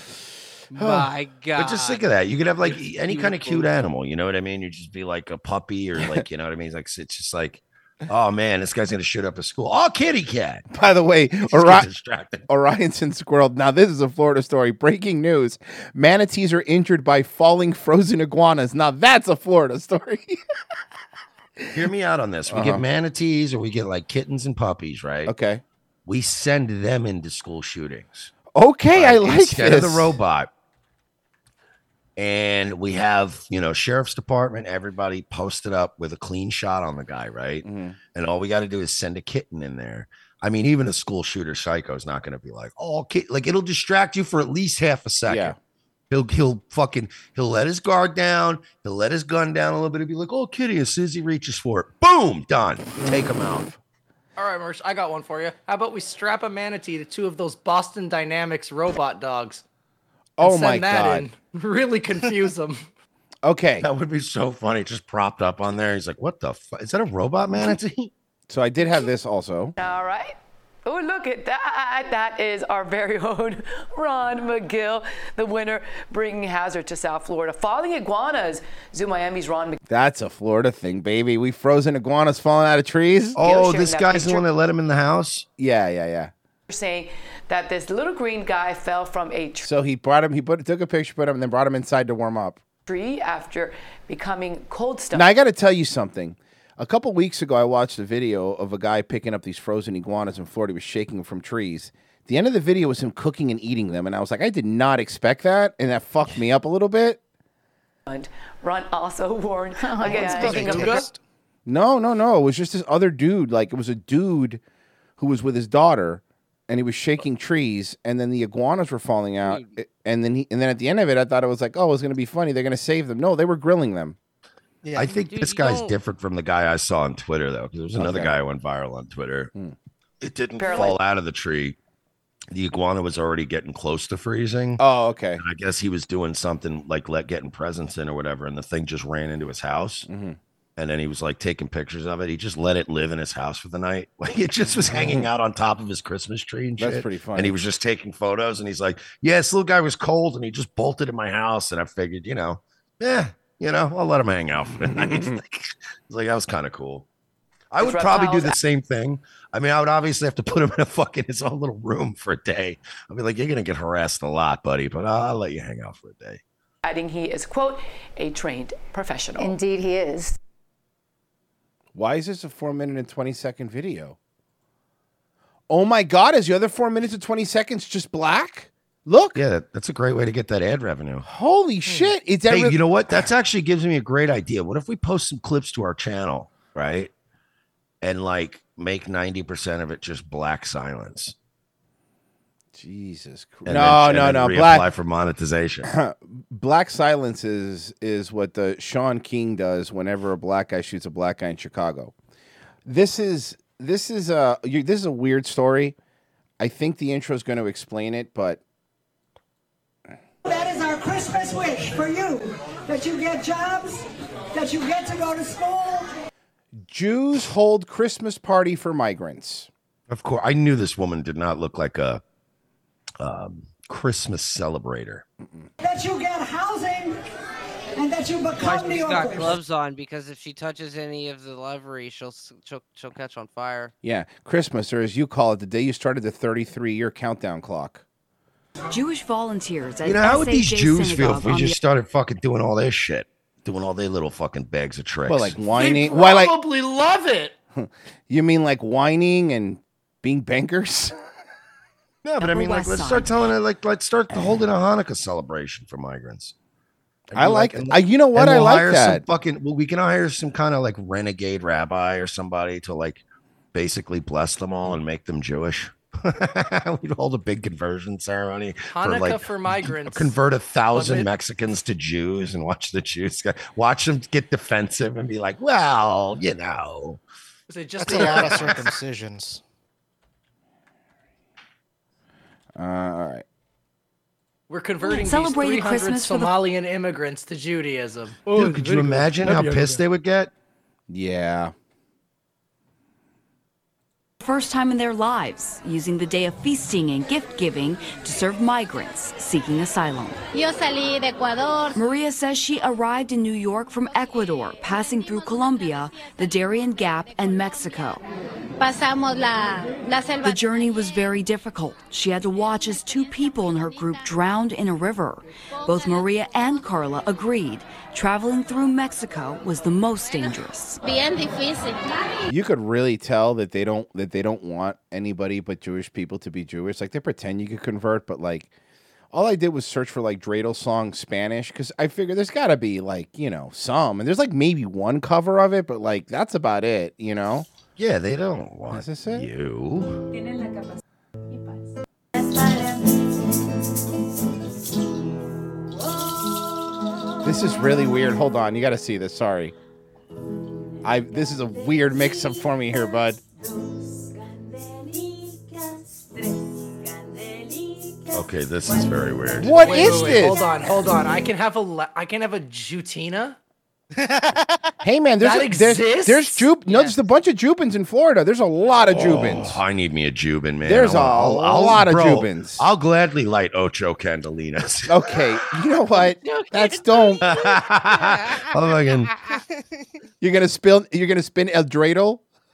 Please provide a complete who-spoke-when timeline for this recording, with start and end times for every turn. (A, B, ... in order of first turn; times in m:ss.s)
0:00.7-0:02.1 A
0:01.6-0:10.7 B
0:02.7-0:03.7 A
0:10.7-0:11.9 C
0:11.5-0:12.5 B
0:12.5-0:20.4 C
0:21.7-0:25.3 B
0:22.5-0:22.8 C
0:25.3-0:25.6 C
0:26.1-0:28.3 B
0:28.5-0:30.2 C
0:28.9-0:30.5 B
0:32.2-0:45.6 B
0:37.6-0:38.0 C
0:45.3-0:45.6 C
0:46.1-0:53.7 B
0:54.4-0:59.6 D
1:00.4-1:01.3 C
1:00.4-1:02.9 D
1:03.4-1:03.9 C
1:03.8-1:08.1 B
1:08.5-1:09.8 C
1:09.8-1:19.8 E
1:19.8-1:23.4 C
1:23.4-1:24.5 E
1:23.4-1:25.5 B
1:25.6-1:26.3 C
1:26.7-1:29.7 E
1:29.6-1:32.6 C
1:32.9-1:35.3 E
1:35.1-1:47.2 C
1:48.1-1:51.0 E
1:50.0-1:51.2 F
1:51.7-1:54.6 C
1:55.2-2:04.2 C
2:04.8-2:05.1 F
2:05.0-2:06.0 A
2:05.0-2:09.5 B
2:08.0-2:08.3 C
2:10.2-2:11.8 B
2:10.6-2:11.0 E
2:12.5-2:14.8 B
2:14.8-2:15.4 C
2:15.4-2:20.1 B
2:20.1-2:20.4 C
2:20.8-2:37.1 B
2:24.9-2:25.3 C
2:26.8-2:27.6 C
2:34.8-2:35.4 C
2:37.7-2:46.4 B
2:37.8-2:38.6 E
2:46.8-2:49.6 E
2:52.0-2:54.2 C
2:55.7-2:59.4 C
2:59.4-3:01.3 B
3:01.2-3:02.8 C
3:02.5-3:07.1 B
3:08.0-3:11.4 B
3:12.7-3:14.9 C
3:13.6-3:15.9 B
3:15.8-3:22.1 C
3:22.8-3:26.0 C
3:26.6-3:28.6 C
3:30.4-3:36.1 G
3:36.8-3:39.7 C
3:40.1-3:42.2 B
3:43.2-3:45.2 B
3:45.4-3:45.7 C
3:45.8-3:47.2 G
3:48.0-3:49.6 G
3:48.6-3:53.9 A
3:54.0-3:58.0 C
3:58.9-4:01.8 H
4:00.0-4:05.6 B
4:05.3-4:06.6 C
4:05.7-4:07.6 D
4:07.8-4:11.1 C
4:12.2-4:16.6 B
4:12.4-4:13.3 H
4:17.3-4:23.2 B
4:17.4-4:19.2 C
4:23.7-4:37.2 B
4:28.9-4:30.4 D
4:30.9-4:31.3 D
4:37.7-4:38.8 D
4:38.0-4:39.6 F
4:38.1-4:38.7 B
4:42.8-4:43.4 C
4:44.7-4:50.0 D
4:45.0-4:46.6 H
4:48.5-4:50.5 B
4:51.1-4:51.7 C
4:54.4-5:00.4 H
5:00.5-5:02.0 I
5:01.9-5:08.2 H
5:08.8-5:10.6 I
5:10.4-5:21.0 H
5:21.0-5:22.4 I
5:22.5-5:28.7 C
5:29.3-5:37.7 C
5:38.0-5:40.3 B
5:38.9-5:39.5 C
5:47.4-5:49.8 C
5:51.0-5:53.4 C
5:58.3-6:00.1 B
5:59.6-6:00.6 C
5:59.7-6:03.6 D
6:04.2-6:04.5 D
6:05.0-6:09.8 C
6:05.4-6:06.8 D
6:09.1-6:15.1 B
6:10.8-6:12.9 C
6:15.1-6:17.5 C
6:16.6-6:16.9 A
6:17.4-6:19.4 B
6:20.4-6:22.4 C